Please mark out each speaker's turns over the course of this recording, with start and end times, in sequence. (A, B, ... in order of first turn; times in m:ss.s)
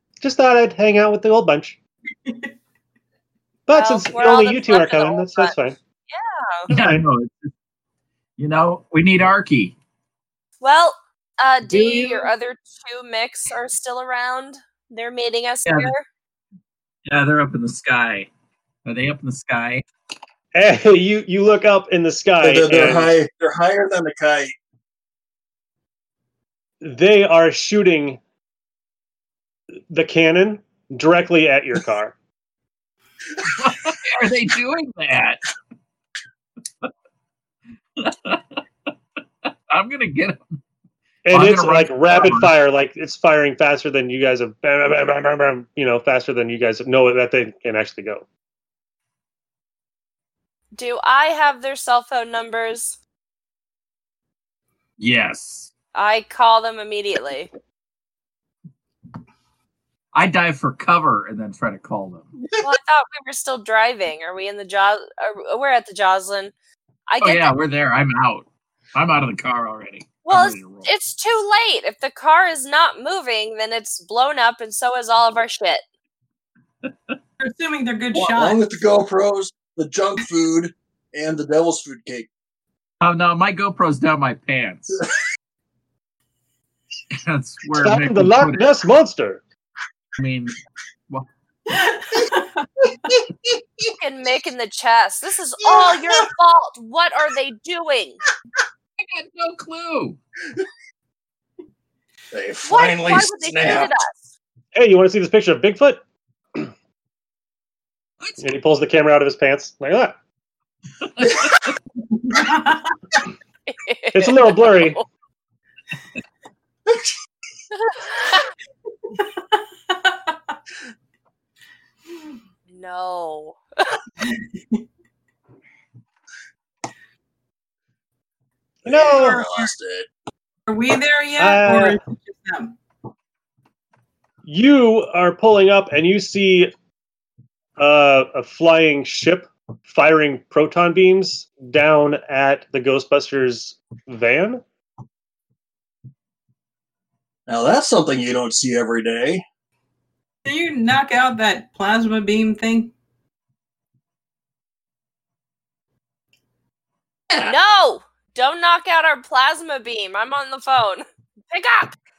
0:00.2-0:01.8 A
0:03.7-0:05.8 A
0:03.7-0:05.6 B
0:06.1-0:06.7 B
0:06.7-0:07.0 A
0:06.7-0:07.5 C
0:08.4-0:09.8 C
0:10.6-0:16.0 B
0:11.7-0:12.3 C
0:15.6-0:15.9 C
0:17.1-0:18.3 C
0:18.8-0:19.8 C
0:20.5-0:23.2 A
0:22.4-0:24.5 D
0:26.8-0:28.2 A
0:29.9-0:32.1 A
0:33.4-0:35.4 C
0:38.0-0:38.6 C
0:39.7-0:40.4 C
0:41.2-0:48.2 A
0:41.3-0:42.5 C
0:50.7-0:53.0 B
0:55.0-0:55.7 C
0:55.9-0:57.5 B
1:00.1-1:02.4 C
1:02.6-1:06.5 B
1:07.1-1:07.5 B
1:07.2-1:10.9 C
1:10.2-1:15.8 B
1:17.4-1:18.6 E
1:18.1-1:22.3 D
1:23.0-1:25.0 C
1:27.1-1:28.7 C
1:27.8-1:29.4 A
1:30.2-1:30.6 C
1:31.7-1:32.6 E
1:33.9-1:38.2 B
1:35.7-1:36.2 D
1:39.0-1:40.2 C
1:42.3-1:43.9 D
1:42.6-1:44.3 B
1:44.7-1:46.0 A
1:48.4-1:50.2 A
1:51.2-1:51.7 C
1:52.1-1:53.0 E
1:53.6-1:55.0 B
1:54.1-1:55.0 A
1:57.7-1:58.5 B
1:59.9-2:00.3 E
2:02.7-2:04.0 B
2:04.3-2:04.8 E
2:08.8-2:10.1 D
2:08.8-2:09.4 A
2:09.1-2:09.7 E
2:10.7-2:12.7 E
2:11.4-2:12.0 A
2:14.4-2:16.7 A
2:17.8-2:24.6 A
2:27.5-2:29.4 D
2:30.4-2:32.9 E
2:37.4-2:41.9 B